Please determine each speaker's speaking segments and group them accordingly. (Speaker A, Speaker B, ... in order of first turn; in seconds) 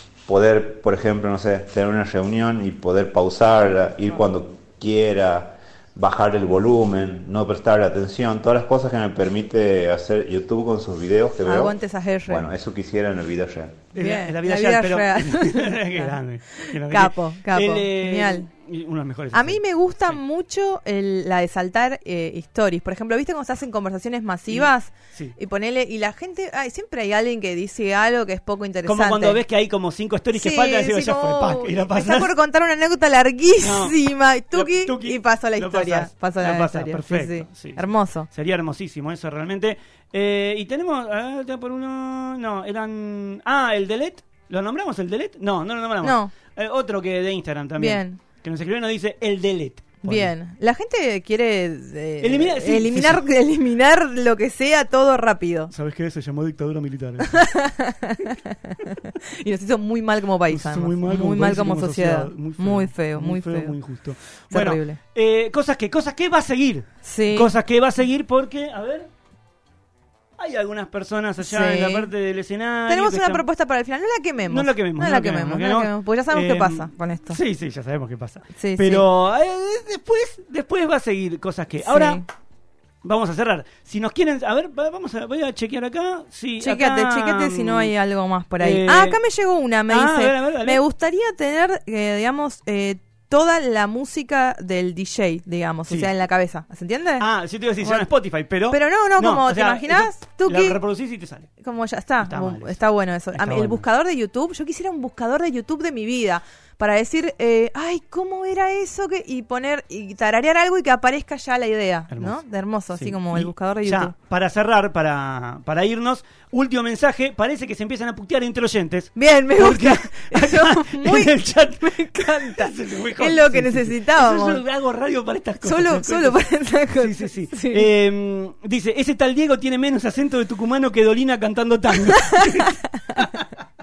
Speaker A: 0.3-13.8
Speaker B: 11.5-12.5, 14.0-18.5, 19.3-29.4, 30.4-38.3, 46.0-46.3, 47.8-48.2, 50.0-55.7, 57.4-63.8, 64.5-65.0, 67.0-67.5, 71.4-72.1, 72.9-77.4, 78.6-79.0, 81.8-82.2, 86.6-97.3, 97.8-98.1, 98.7-100.8, 101.6-114.2, 119.2-124.6, 125.6-127.9
Speaker C: 13.9-20.2, 24.5-25.4, 28.9-32.3, 33.6-34.0, 34.5-50.3, 52.2-53.2, 55.7-57.5, 60.5-69.1, 70.4-73.5, 74.5-82.2, 83.0-87.9, 88.6-89.2, 89.9-90.8, 97.2-101.5, 102.2-102.8, 103.3-103.8, 112.1-133.4